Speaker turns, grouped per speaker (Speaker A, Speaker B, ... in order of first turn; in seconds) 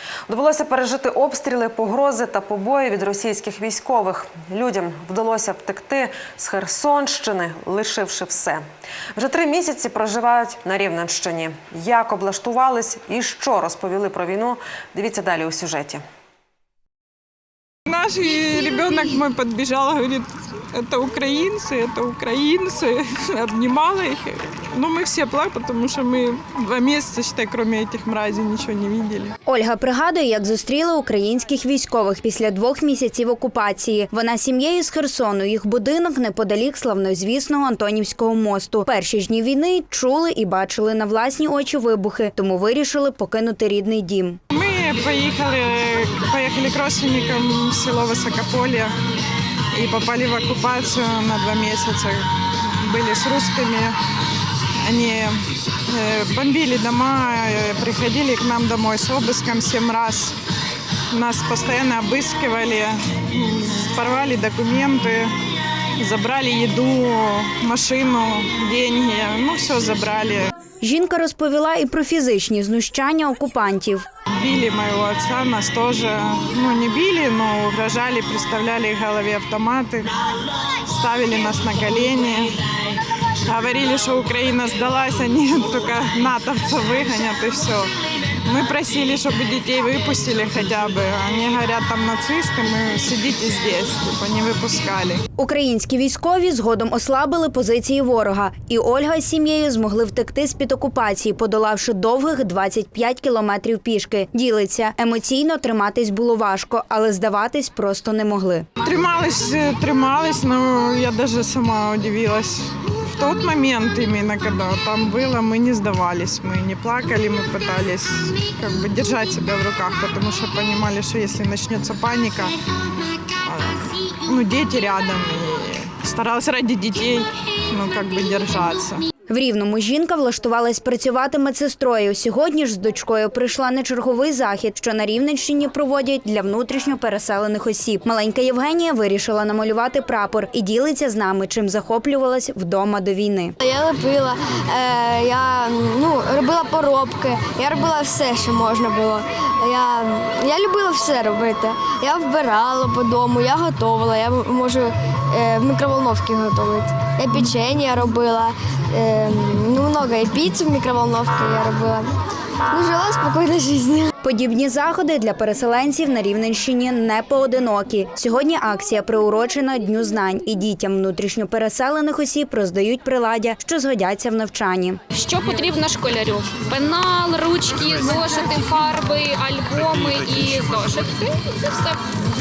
Speaker A: 0.3-8.6, 9.2-16.0
Speaker B: 17.9-29.3, 44.5-48.9, 49.7-54.0, 54.8-60.4, 61.1-65.3, 66.0-70.5, 74.3-80.1, 80.8-82.6, 83.4-87.9, 88.4-95.2, 108.8-122.6, 123.5-129.0
Speaker C: 29.5-44.4, 70.8-74.1, 95.4-108.7, 129.3-143.6, 164.2-175.0
Speaker D: 143.6-162.2, 162.7-164.1
Speaker E: 175.1-182.0